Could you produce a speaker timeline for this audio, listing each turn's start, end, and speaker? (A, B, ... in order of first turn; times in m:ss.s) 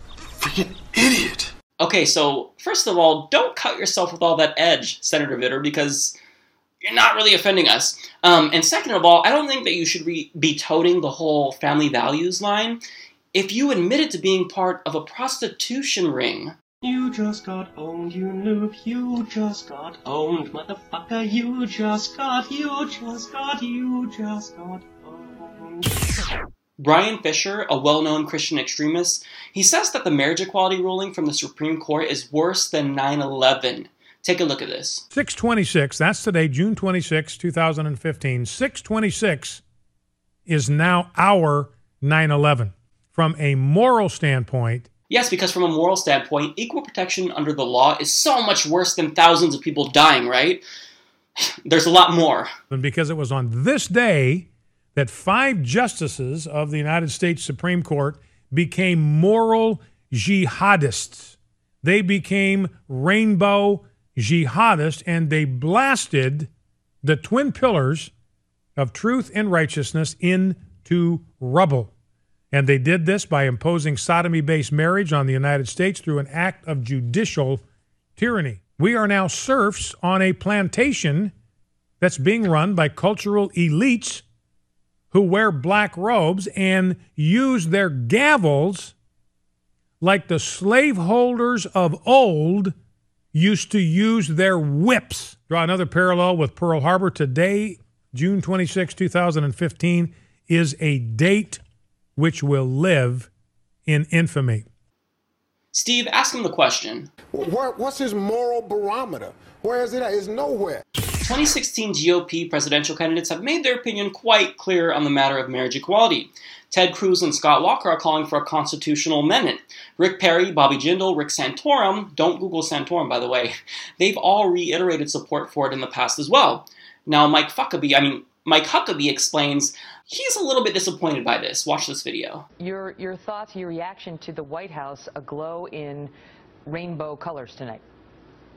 0:01.8-0:06.2 A
0:06.8-0:12.8 A
0:13.3-0:16.6 A
0:16.8-0:26.0 B
0:26.8-0:35.0 A
0:35.1-0:39.6 C
0:40.5-0:44.9 C
0:45.1-0:50.6 A
0:51.6-0:52.5 A
0:52.7-1:06.5 C
1:07.0-1:08.1 C
1:08.8-1:11.9 C
1:12.5-1:17.6 C
1:18.2-1:21.3 C
1:22.0-1:24.2 C
1:25.1-1:28.9 C
1:30.0-1:32.7 C
1:33.3-1:41.6 C
1:42.2-1:43.3 C
1:43.9-1:44.6 C
1:45.7-1:47.1 A
1:47.3-1:50.8 D
1:51.2-2:12.4 A
2:12.6-2:16.1 E
2:16.6-2:17.8 E